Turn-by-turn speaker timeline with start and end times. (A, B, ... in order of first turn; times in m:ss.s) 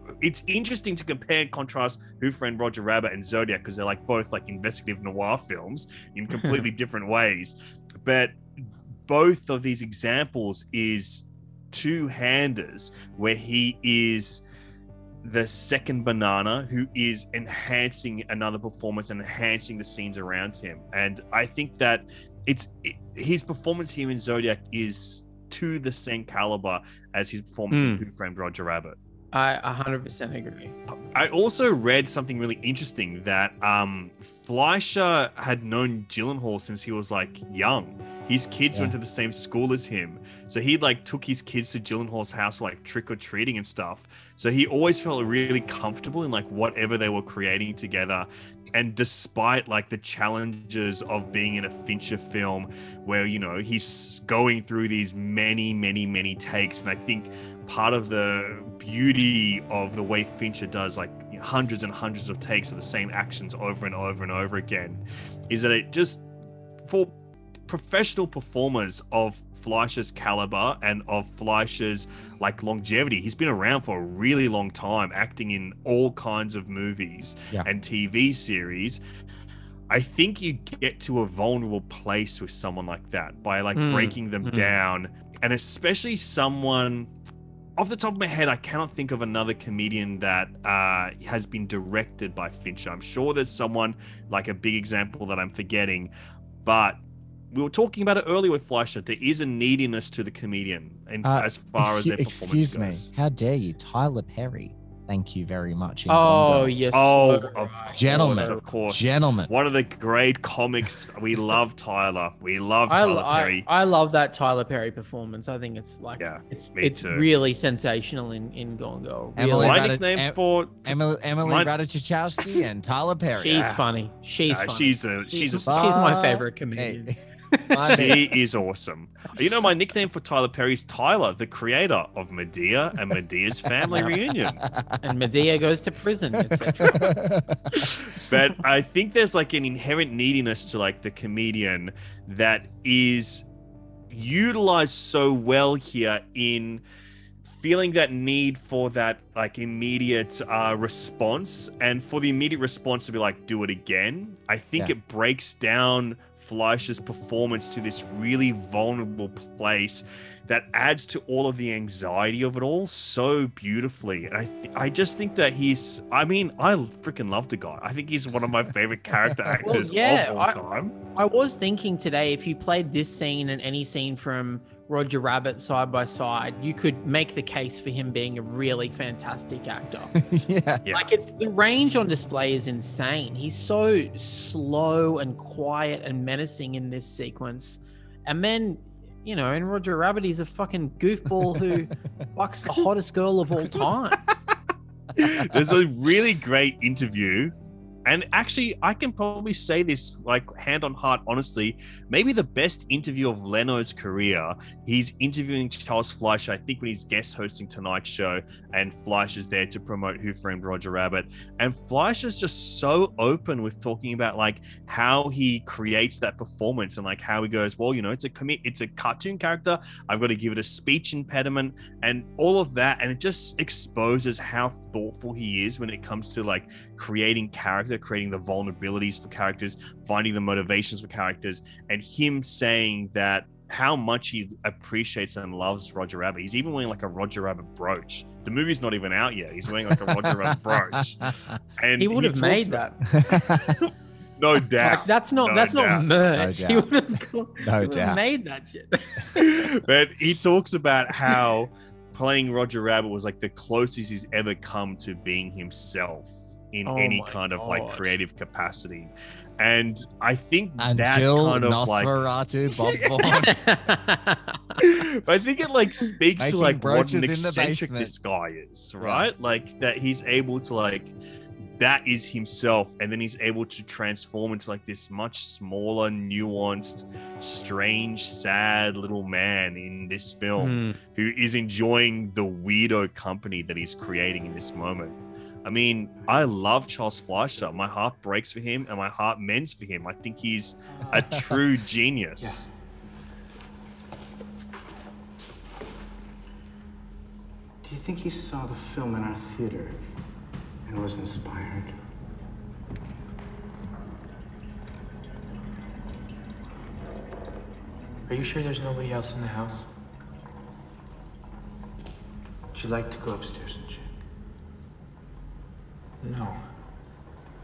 0:00.2-0:08.4 A
0:09.1-0:14.4 A
0:15.2-0:29.0 A
0:27.7-0:28.0 B
0:29.3-0:30.7 B
0:30.9-1:06.2 A
1:06.8-1:07.1 A
1:07.7-1:19.0 A
1:19.9-1:27.1 A
1:23.8-1:24.7 B
1:27.8-1:36.1 A
1:36.6-1:37.0 A
1:37.5-1:43.1 A
1:41.2-1:46.7 C
1:46.1-1:48.6 B
1:46.9-1:53.6 A
1:47.9-1:49.5 C
1:52.9-1:59.8 B
1:56.2-1:57.3 A
1:59.4-2:03.7 C
1:59.6-2:01.7 A
2:03.4-2:08.1 B
2:03.6-2:03.8 A
2:04.5-2:06.0 A
2:05.7-2:07.2 C
2:07.7-2:08.2 C
2:07.9-2:14.6 A
2:13.8-2:14.9 C
2:15.0-2:17.1 B
2:16.4-2:17.9 C
2:18.2-2:23.4 A
2:24.1-2:26.8 A
2:27.5-2:51.0 A
2:49.6-2:50.6 B
2:51.1-3:00.1 B
3:00.2-3:00.8 C
3:00.9-3:14.2 B
3:15.2-3:17.5 A
3:18.0-4:02.8 A
4:00.0-4:01.0 C
4:02.0-4:03.0 B
4:03.1-4:03.7 C
4:04.4-4:06.0 A
4:04.8-4:09.5 B
4:06.3-4:06.9 C
4:07.6-4:08.2 C
4:09.4-4:22.1 A
4:16.9-4:18.1 B
4:20.8-4:23.6 C
4:23.2-4:24.8 B
4:24.8-4:31.1 A
4:26.4-4:28.1 C
4:29.0-4:29.3 C
4:31.8-4:52.6 A
4:40.6-4:41.0 B
4:57.8-5:00.0 D
5:00.9-5:01.9 D
5:08.3-5:09.9 E
5:12.7-5:14.1 D
5:16.2-5:16.6 E